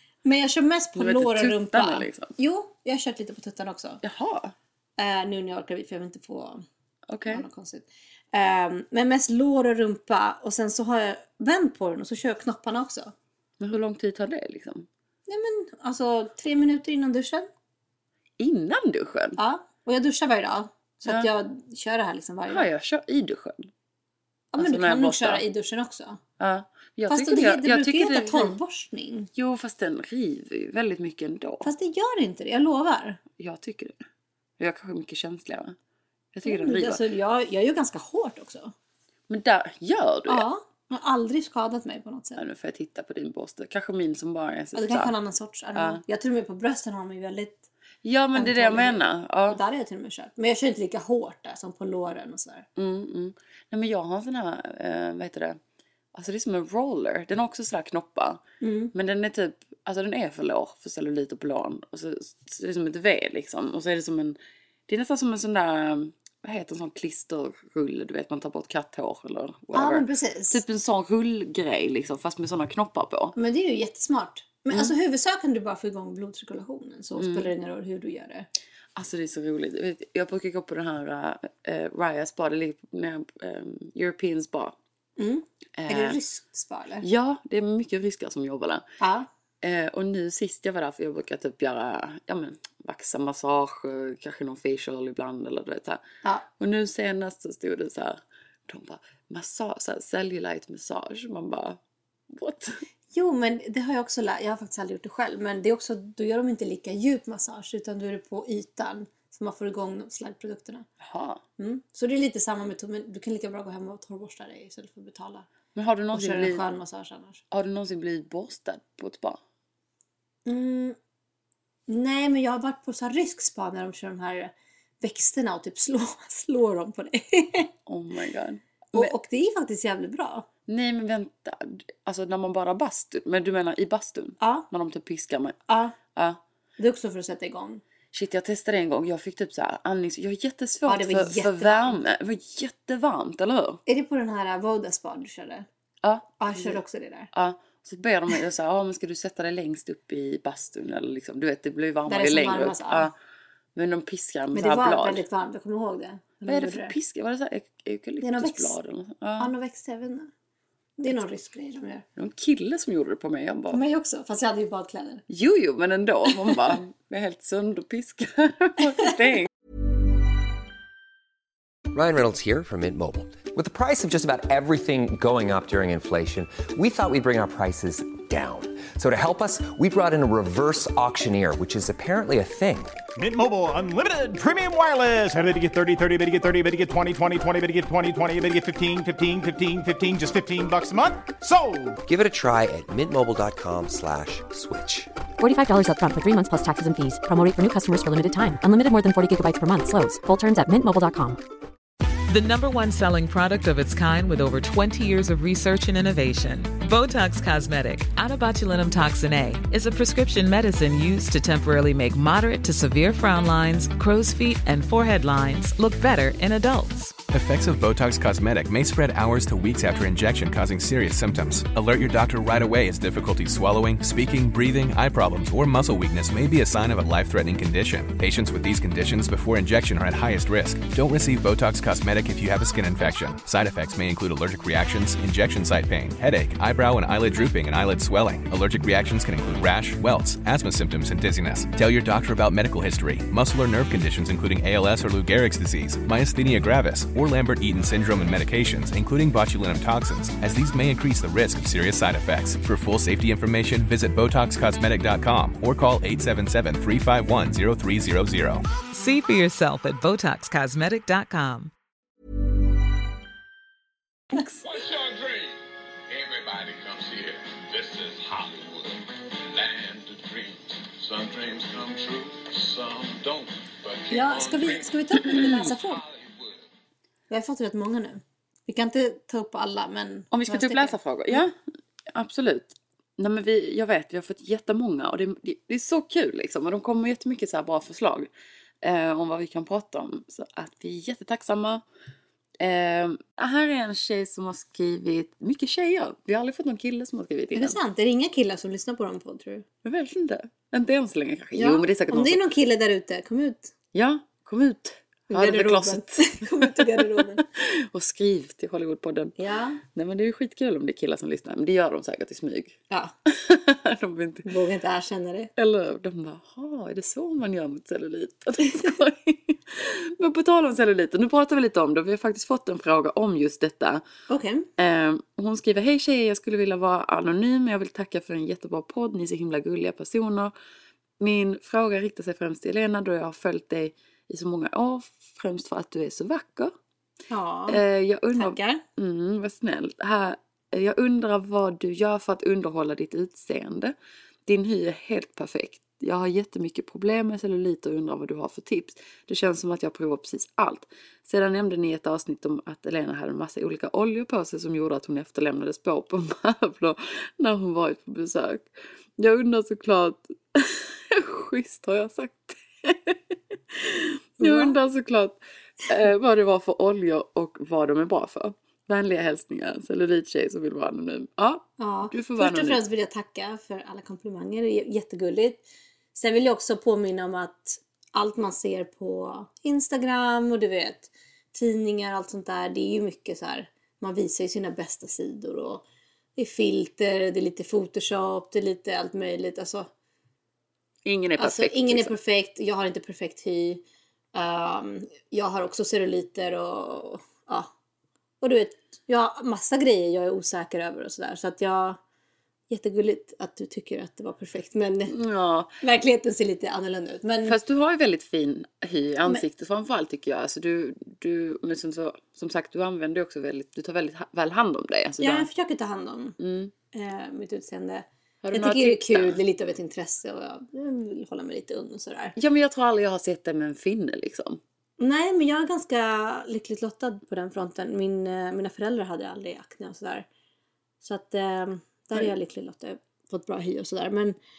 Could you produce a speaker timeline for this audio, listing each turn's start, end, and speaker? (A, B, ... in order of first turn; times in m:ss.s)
0:00.2-0:04.0 A
0:01.0-0:02.3 B
0:04.0-0:04.6 B
0:05.0-0:06.6 A
0:07.1-0:07.4 B
0:07.2-0:13.1 A
0:13.6-0:14.9 B
0:15.3-0:17.5 A
0:18.4-0:19.4 B
0:19.4-0:22.7 A
0:22.5-0:23.7 B
0:24.5-0:26.2 A
0:24.6-0:25.4 B
0:26.4-0:28.6 B
0:27.1-0:29.3 A
0:29.4-0:31.7 B
0:31.6-0:33.2 A
0:33.4-0:34.0 B
0:34.6-0:35.8 B
0:36.3-0:37.0 B
0:36.4-0:38.7 A
0:39.3-0:40.4 B
0:40.3-0:42.4 A
0:42.4-0:45.2 B
0:44.7-0:47.6 A
0:45.7-0:46.0 B
0:48.0-0:49.6 B
0:48.4-0:52.6 A
0:52.8-0:55.6 B
0:56.1-0:58.4 B
0:58.6-0:58.9 A
0:58.9-1:04.4 B
1:04.9-1:13.4 B
1:09.7-1:10.6 A
1:13.4-1:18.5 A
1:17.2-1:17.5 B
1:18.9-1:24.7 B
1:25.2-1:27.1 A
1:25.8-1:26.2 B
1:27.0-1:28.8 B
1:29.0-1:29.3 A
1:29.6-1:36.0 B
1:36.6-1:42.8 B
1:43.1-1:50.9 A
1:51.0-1:51.4 B
1:51.6-1:55.5 A
1:55.7-1:56.6 B
1:56.1-1:57.4 A
1:57.5-1:59.4 B
2:00.4-2:01.0 A
2:01.9-2:07.7 A
2:07.9-2:09.1 B
2:08.9-2:10.5 A
2:10.7-2:15.6 B
2:14.4-2:14.6 A
2:15.7-2:16.0 A
2:16.1-2:16.4 B
2:16.8-2:17.8 A
2:18.1-2:23.8 B
2:20.9-2:22.0 A
2:23.9-2:25.6 A
2:26.0-2:26.8 B
2:26.4-2:27.3 A
2:27.3-2:33.1 B
2:32.1-2:33.1 A
2:33.7-2:35.2 B
2:34.5-2:36.9 A
2:36.4-2:39.5 B
2:38.2-2:38.8 A
2:39.4-2:40.3 A
2:41.0-2:42.0 A
2:42.2-2:43.8 B
2:43.7-2:45.2 A
2:45.3-2:49.5 B
2:51.9-3:03.0 C
3:03.2-3:12.0 D
3:12.0-3:15.1 C
3:15.4-3:21.4 E
3:22.3-3:37.2 F
3:37.3-4:18.6 G
4:18.9-4:21.7 F
4:24.6-4:25.6 H
4:26.1-4:36.7 H
4:34.1-4:36.0 A
4:37.3-4:41.4 A
4:40.3-4:41.5 B
4:42.1-4:48.3 B
4:48.8-4:51.8 B
4:52.6-4:57.8 B
4:57.5-4:59.6 A
4:59.8-5:02.4 B
5:01.6-5:03.7 A
5:03.9-5:14.5 B
5:05.3-5:07.4 A
5:09.4-5:09.8 A
5:14.4-5:15.5 A
5:15.6-5:24.0 B
5:24.3-5:24.7 A
5:24.8-5:30.5 B
5:31.2-5:36.7 B
5:37.3-5:37.8 A
5:37.7-5:43.9 B
5:38.3-5:38.8 A
5:44.4-6:12.8 B
6:04.4-6:04.8 A
6:11.8-6:15.6 A
6:16.1-6:25.8 A
6:26.4-6:29.9 A
6:31.0-6:32.1 B
6:31.4-6:33.8 A
6:34.3-6:37.7 A
6:38.4-6:42.0 A
6:42.7-6:45.2 A
6:45.1-6:45.8 B
6:45.8-6:47.6 A
6:47.4-6:55.5 B
6:55.2-6:56.4 A
6:56.4-6:56.7 B
6:56.9-7:02.4 A
6:58.4-6:59.4 B
7:02.4-7:04.6 B
7:05.0-7:10.3 A
7:11.0-7:14.4 A